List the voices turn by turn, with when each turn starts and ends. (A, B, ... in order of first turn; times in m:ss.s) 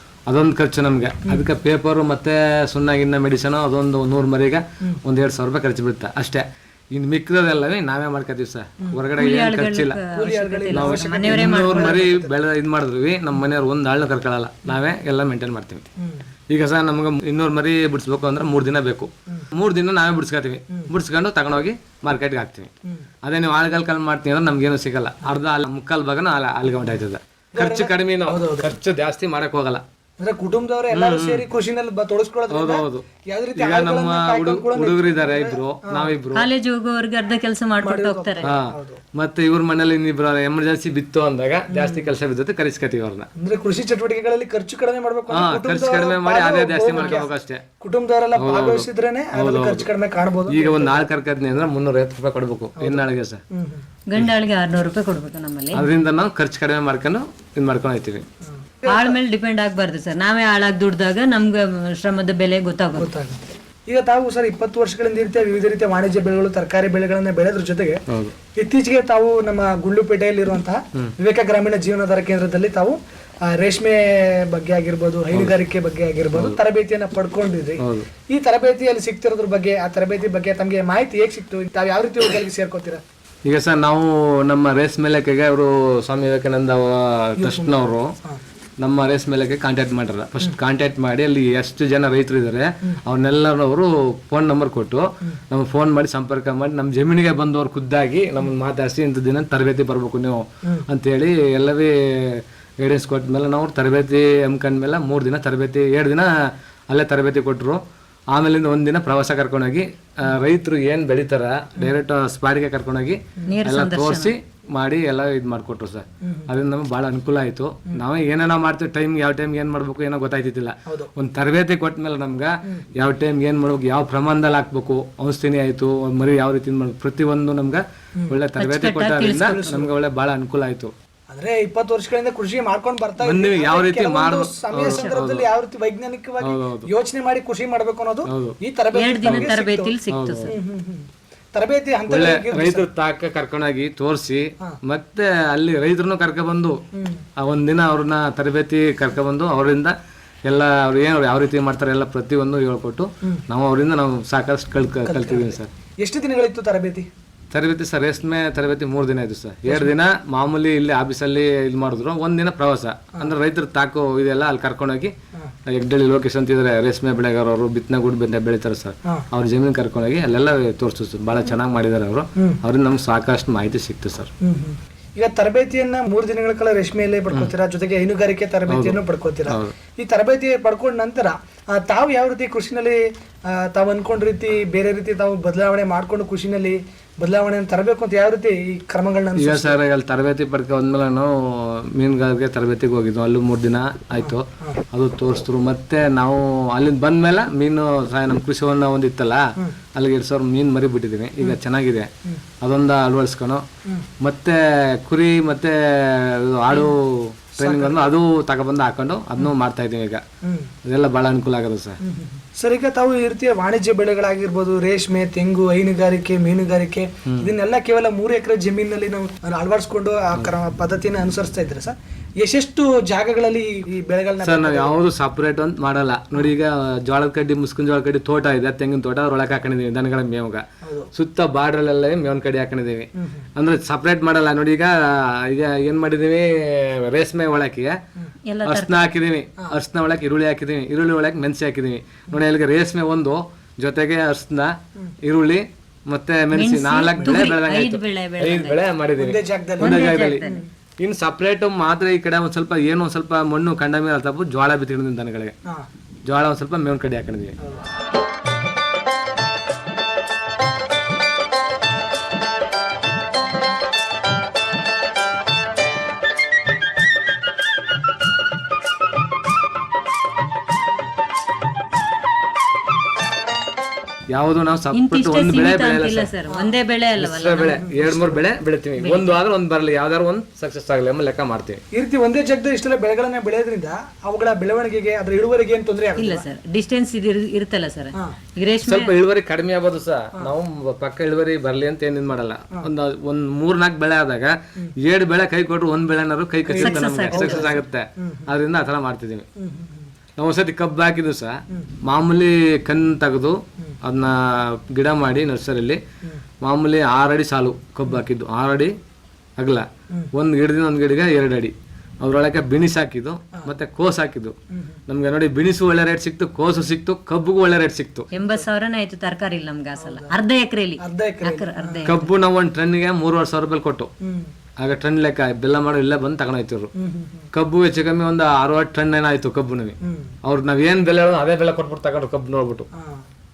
0:00.3-0:10.0 A
0:09.2-0:12.0 B
0:10.1-0:12.3 C
0:10.7-0:15.9 A
0:16.0-0:16.3 C
0:16.5-0:22.7 A
0:23.2-0:29.8 A
0:27.5-0:28.7 C
0:30.2-0:36.1 C
0:30.9-0:31.4 A
0:32.5-0:36.5 A
0:36.4-0:38.5 B
0:37.8-0:39.0 C
0:38.4-0:43.3 A
0:41.7-0:42.1 C
0:43.4-0:51.1 C
0:45.3-0:47.6 A
0:48.4-0:49.9 A
0:50.5-0:53.4 A
0:52.8-0:53.8 C
0:54.1-0:55.8 B
0:55.7-0:58.2 A
0:58.6-0:59.2 C
0:58.9-1:03.1 B
1:03.0-1:08.0 C
1:08.1-1:08.4 A
1:08.6-1:23.0 C
1:17.8-1:18.1 A
1:23.4-1:28.1 A
1:27.4-1:28.4 C
1:28.8-1:46.3 A
1:46.9-1:47.8 A
1:48.3-2:10.9 A
1:53.5-1:54.3 B
1:56.2-1:56.5 C
2:00.9-2:01.1 C
2:08.6-2:09.6 B
2:09.4-2:09.9 C
2:11.3-2:22.9 C
2:13.2-2:15.5 A
2:16.4-2:16.9 A
2:18.2-2:18.6 A
2:18.9-2:20.5 B
2:19.2-2:19.5 A
2:20.1-2:20.6 A
2:22.1-2:26.8 A
2:26.9-2:27.2 C
2:27.4-2:30.0 A
2:30.5-2:35.7 A
2:35.0-2:37.1 C
2:37.5-2:45.1 A
2:39.7-2:39.9 C
2:45.7-2:54.3 A
2:54.4-3:09.8 C
2:58.7-2:59.8 A
3:09.4-3:22.1 A
3:14.2-3:14.8 C
3:22.6-3:23.6 A
3:24.2-3:30.2 A
3:27.6-3:28.1 C
3:30.4-3:30.7 C
3:30.8-3:32.0 A
3:32.0-3:45.0 C
3:44.4-3:50.6 A
3:50.8-3:51.1 C
3:51.2-3:58.0 A
3:53.2-3:53.4 C
3:58.5-3:59.0 B
3:58.6-4:10.4 A
4:06.5-4:08.8 B
4:07.2-4:07.5 C
4:09.2-4:10.7 C
4:09.8-4:10.6 B
4:11.0-4:15.6 A
4:16.3-4:17.6 A
4:34.3-4:36.3 A
4:34.9-4:37.9 B
4:37.2-4:41.8 A
4:37.8-4:38.4 C
4:39.0-4:39.4 B
4:41.9-4:46.5 C
4:46.2-4:49.1 B
4:48.8-4:59.5 A
4:56.7-4:58.5 C
4:56.8-4:57.7 B
4:59.6-5:00.1 C
5:00.4-5:06.0 A
5:06.6-5:08.9 A
5:09.6-5:14.6 A
5:14.7-5:15.0 C
5:15.1-5:18.3 A
5:18.3-5:22.3 B
5:18.3-5:18.6 C
5:20.0-5:20.4 C
5:21.0-5:22.1 C
5:22.0-5:24.1 A
5:24.2-5:24.5 C
5:24.8-5:26.9 A
5:27.0-5:27.5 C
5:27.5-5:32.9 A
5:30.0-5:30.3 C
5:33.0-5:33.2 C